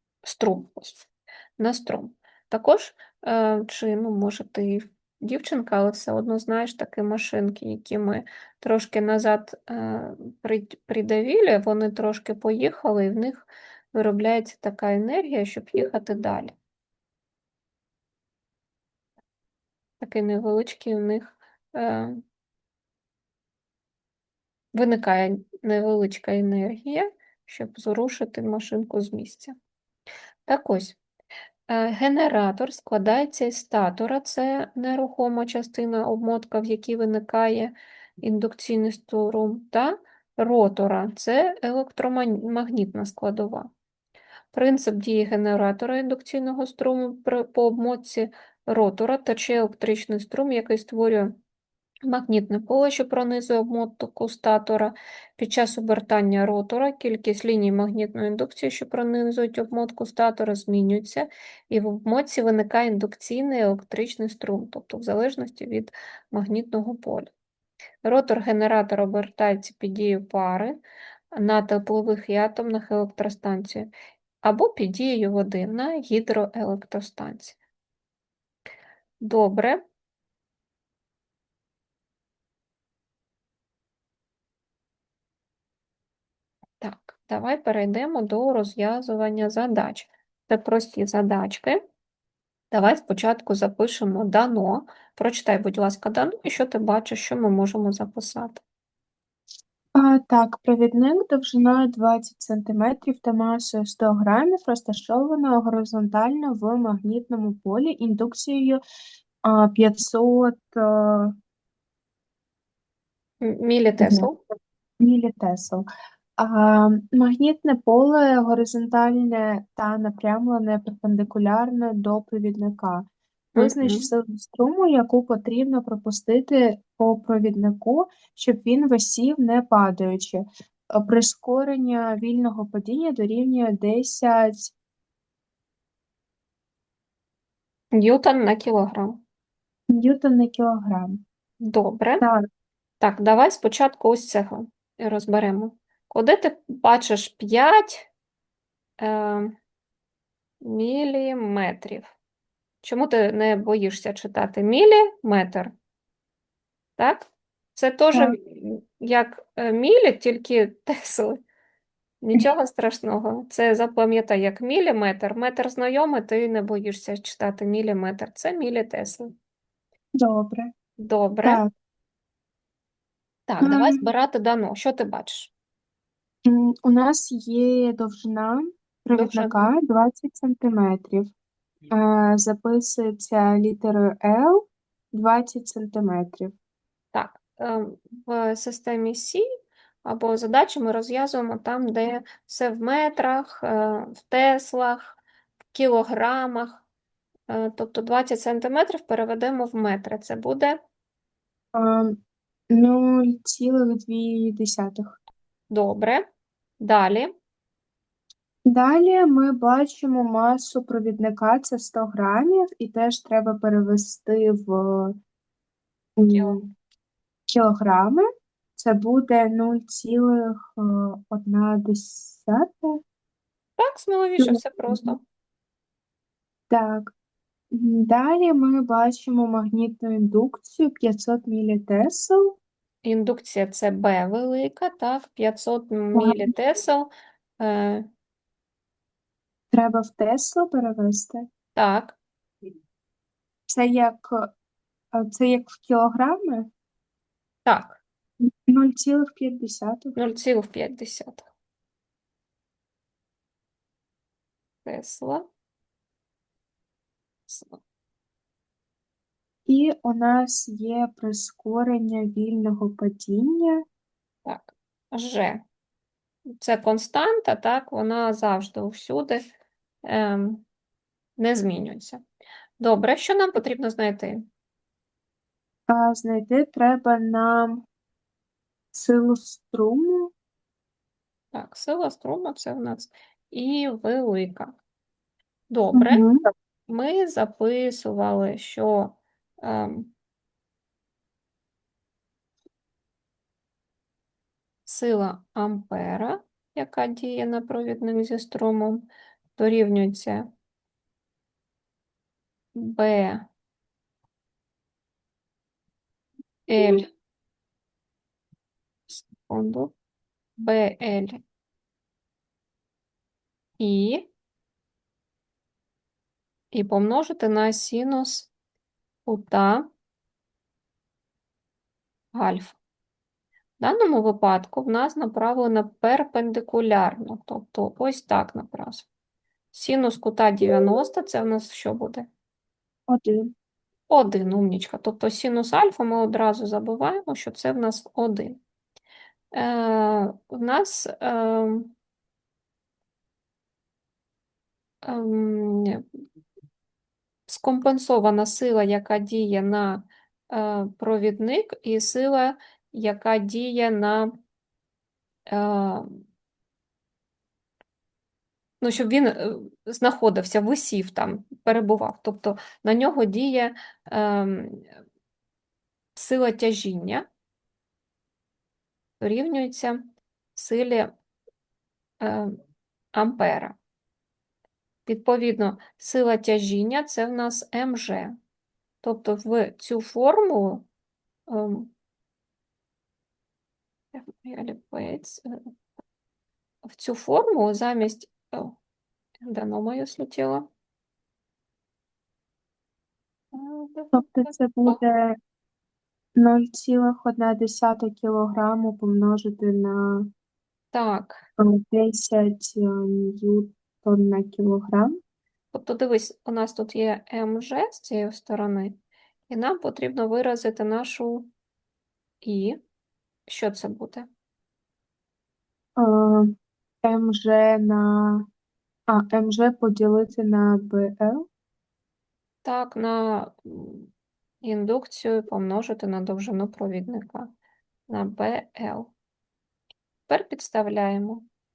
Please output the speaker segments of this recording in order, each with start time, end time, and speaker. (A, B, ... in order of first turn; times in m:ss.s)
0:00.2-0:16.5 A
0:20.0-0:22.2 A
0:24.7-0:29.6 A
0:30.5-0:31.0 A
0:31.7-0:43.7 A
0:44.5-0:51.4 A
0:52.0-1:07.3 A
1:08.0-1:10.8 A
1:11.3-1:13.9 A
1:14.4-1:17.6 A
1:19.2-1:19.8 A
1:26.8-1:31.8 A
1:32.7-1:38.6 A
1:40.0-1:48.8 B
1:49.4-1:51.4 B
1:53.4-1:54.4 A
1:54.0-1:54.3 B
1:55.0-1:55.9 B
1:56.4-2:14.7 B
2:03.6-2:04.1 A
2:17.9-2:19.2 A
2:19.9-2:21.2 B
2:21.6-2:22.2 A
2:22.2-2:22.5 B
2:23.0-2:28.1 A
2:29.0-2:29.5 A
2:30.6-2:32.1 A
2:32.8-2:35.7 A
2:37.0-2:41.4 A
2:42.2-2:49.3 A
2:50.2-2:50.7 B
2:51.0-2:51.6 A
2:51.4-2:51.7 B
2:53.5-2:55.5 A
2:53.6-2:54.1 B
2:56.5-3:01.3 B
2:59.1-2:59.7 A
3:01.9-3:06.5 B
3:07.1-3:09.4 A
3:10.0-3:15.2 A
3:15.7-3:16.8 A
3:17.5-3:20.8 A
3:21.7-3:22.2 B
3:22.7-3:25.2 B
3:25.7-3:26.3 A
3:26.8-3:27.3 A
3:28.7-3:35.2 B
3:36.2-3:36.7 B
3:36.3-3:36.6 A
3:37.5-3:38.2 B
3:38.8-3:43.0 B
3:43.8-3:45.2 A
3:44.4-3:45.2 B
3:46.7-3:47.1 B
3:47.7-3:52.6 B
3:53.0-3:58.1 A
3:56.2-3:56.5 B
3:59.7-4:01.5 B
4:01.8-4:02.2 A
4:03.7-4:04.5 B
4:05.1-4:06.7 B
4:07.7-4:08.0 A
4:08.4-4:10.2 B
4:10.2-4:11.5 A
4:14.8-4:15.5 A
4:17.5-4:17.8 A
4:19.7-4:23.8 B
4:24.4-4:25.6 A
4:26.6-4:29.4 A
4:30.0-4:30.6 A
4:31.4-4:32.2 A
4:32.8-4:34.5 A
4:35.9-4:37.8 B
4:38.9-4:40.3 B
4:41.5-4:44.8 A
4:45.7-4:46.2 A
4:45.9-4:46.4 B
4:46.9-4:50.1 A
4:54.9-5:00.5 A
5:02.8-5:03.5 A
5:06.7-5:07.1 A
5:09.1-5:09.9 A
5:10.6-5:11.4 A
5:13.8-5:14.3 A
5:16.7-5:18.5 A
5:19.3-5:19.9 A
5:22.3-5:22.8 A
5:23.8-5:29.1 A
5:29.7-5:32.3 A
5:33.1-5:33.5 B
5:34.1-5:38.6 A
5:39.5-5:41.9 A
5:45.0-5:46.0 A
5:47.5-5:54.3 A
5:55.5-5:56.2 A
5:58.8-6:04.9 A
6:06.2-6:07.3 A
6:09.2-6:11.1 A
6:12.2-6:12.6 A
6:13.1-6:13.8 A
6:15.1-6:18.4 A
6:19.0-6:20.9 A
6:21.5-6:21.9 A
6:24.1-6:25.6 A
6:26.8-6:28.8 A
6:29.4-6:30.7 A
6:33.5-6:35.0 A
6:34.1-6:35.4 B
6:36.4-6:40.3 B
6:40.9-6:41.4 A
6:41.6-6:45.2 B
6:45.7-6:49.0 A
6:49.5-6:51.5 A
6:52.4-6:52.8 A
6:53.5-6:54.3 A
6:56.0-6:56.5 B
6:57.0-6:58.5 B
6:59.1-7:01.5 B
7:02.6-7:04.1 A
7:04.6-7:07.5 A
7:08.1-7:09.1 A
7:10.3-7:11.4 A